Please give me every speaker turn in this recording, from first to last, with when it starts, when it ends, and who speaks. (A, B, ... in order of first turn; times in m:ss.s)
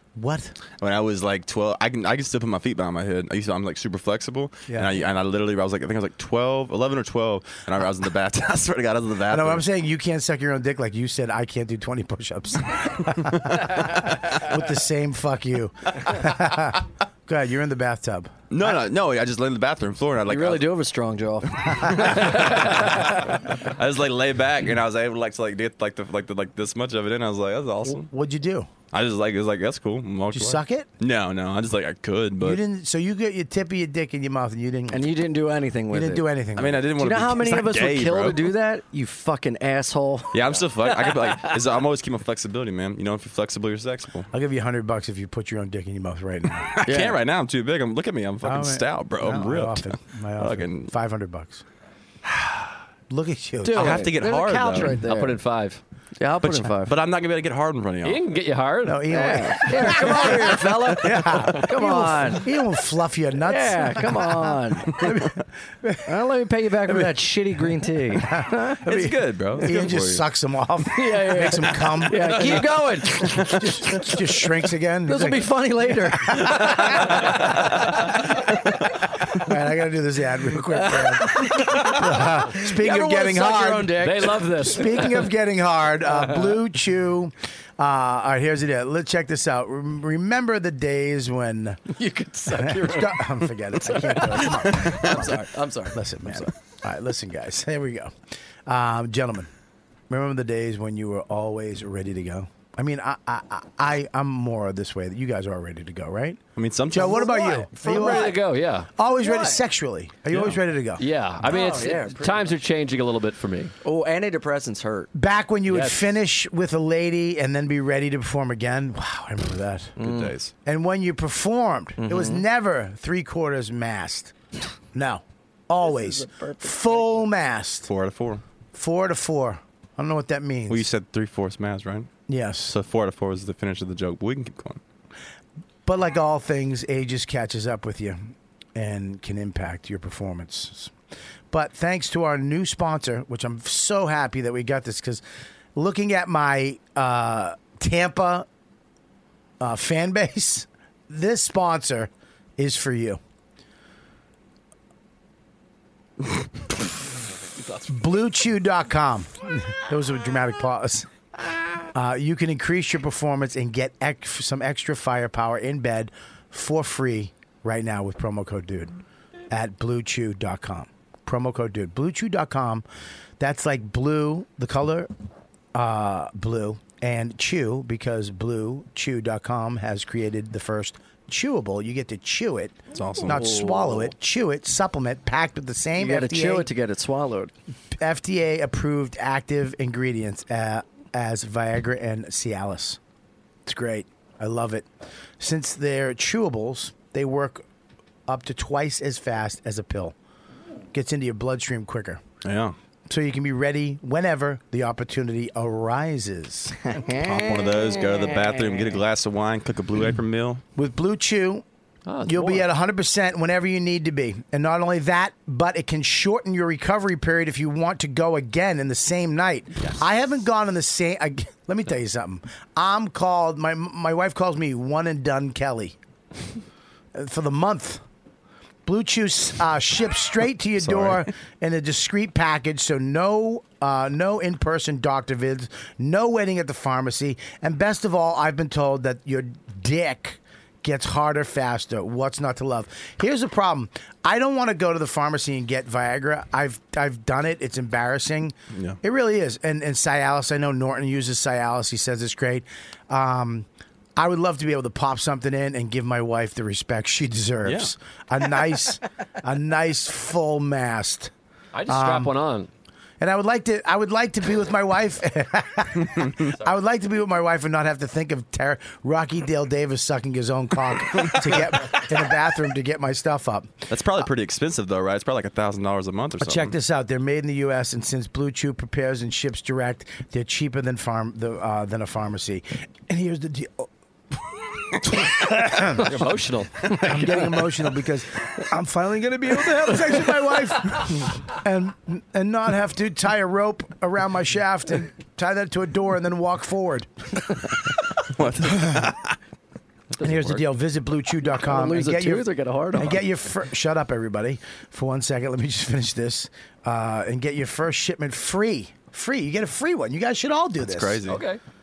0:00.2-0:00.6 A
0:00.8-0:09.6 B
0:04.7-0:04.9 A
0:09.3-0:18.3 A
0:18.5-0:20.7 B
0:20.3-0:23.1 C
0:21.8-0:28.1 B
0:27.9-0:28.7 A
0:28.9-0:32.6 B
0:30.3-0:30.9 A
0:32.4-0:35.1 A
0:34.9-0:36.2 C
0:35.9-0:36.9 A
0:36.6-0:38.5 B
0:37.0-0:41.2 C
0:40.3-0:44.3 B
0:44.3-0:46.8 A
0:46.8-0:50.9 B
0:46.9-0:47.2 C
0:48.4-0:51.6 A
0:52.3-0:52.7 B
0:53.1-0:54.1 A
0:53.6-0:55.4 C
0:53.7-0:55.0 B
0:55.0-0:55.8 D
0:56.2-0:56.9 C
0:56.4-0:58.2 B
0:58.0-0:59.2 D
0:58.8-1:06.3 A
0:59.1-1:02.5 C
1:03.4-1:05.1 C
1:06.0-1:08.8 C
1:06.8-1:07.2 A
1:08.1-1:17.5 A
1:08.9-1:10.2 B
1:11.0-1:14.3 C
1:15.0-1:18.1 C
1:19.3-1:31.8 A
1:20.8-1:25.0 C
1:24.0-1:25.2 D
1:26.0-1:26.6 C
1:31.9-1:36.5 C
1:32.5-1:38.1 A
1:38.6-1:39.5 A
1:40.1-1:48.4 A
1:46.6-1:47.3 B
1:47.0-1:48.4 C
1:47.8-1:48.9 D
1:49.0-1:51.0 A
1:49.2-1:49.6 C
1:51.0-1:53.7 D
1:51.4-1:52.5 C
1:53.8-1:55.1 C
1:55.1-2:00.0 A
1:55.7-1:56.0 D
2:00.0-2:00.3 C
2:00.0-2:00.5 B
2:00.6-2:04.3 A
2:02.0-2:02.4 C
2:04.9-2:07.9 A
2:05.8-2:07.2 C
2:07.9-2:08.4 B
2:08.7-2:10.9 A
2:10.7-2:12.1 B
2:12.3-2:12.7 A
2:12.6-2:14.8 B
2:15.9-2:20.9 A
2:21.5-2:25.2 A
2:25.7-2:28.5 A
2:29.6-2:33.2 A
2:37.9-2:41.1 A
2:41.9-2:49.0 A
2:49.5-2:52.8 A
2:53.4-2:55.1 A
2:55.7-3:06.7 A
3:02.9-3:03.6 B
3:03.2-3:04.1 C
3:06.0-3:07.5 C
3:07.9-3:13.0 A
3:13.6-3:14.9 A
3:15.4-3:17.6 A
3:18.3-3:20.1 A
3:20.9-3:22.2 A
3:22.4-3:22.7 B
3:23.1-3:27.0 A
3:26.9-3:29.0 C
3:27.1-3:30.6 B
3:30.8-3:31.6 A
3:32.1-3:32.7 D
3:32.2-3:46.0 A
3:47.1-3:48.0 A
3:48.9-4:21.3 A
3:50.8-3:51.2 B
4:08.7-4:09.0 B
4:17.6-4:17.9 B
4:21.7-4:22.7 D
4:21.9-4:22.3 A
4:23.2-4:33.9 A
4:33.9-4:36.7 B
4:36.4-4:46.1 A
4:45.9-4:46.8 D
4:46.9-4:57.4 A
4:58.1-4:59.4 B
4:58.7-4:59.0 A
5:00.1-5:00.6 D
5:00.2-5:11.2 A
5:01.6-5:03.2 C
5:10.8-5:11.4 B
5:11.3-5:11.6 D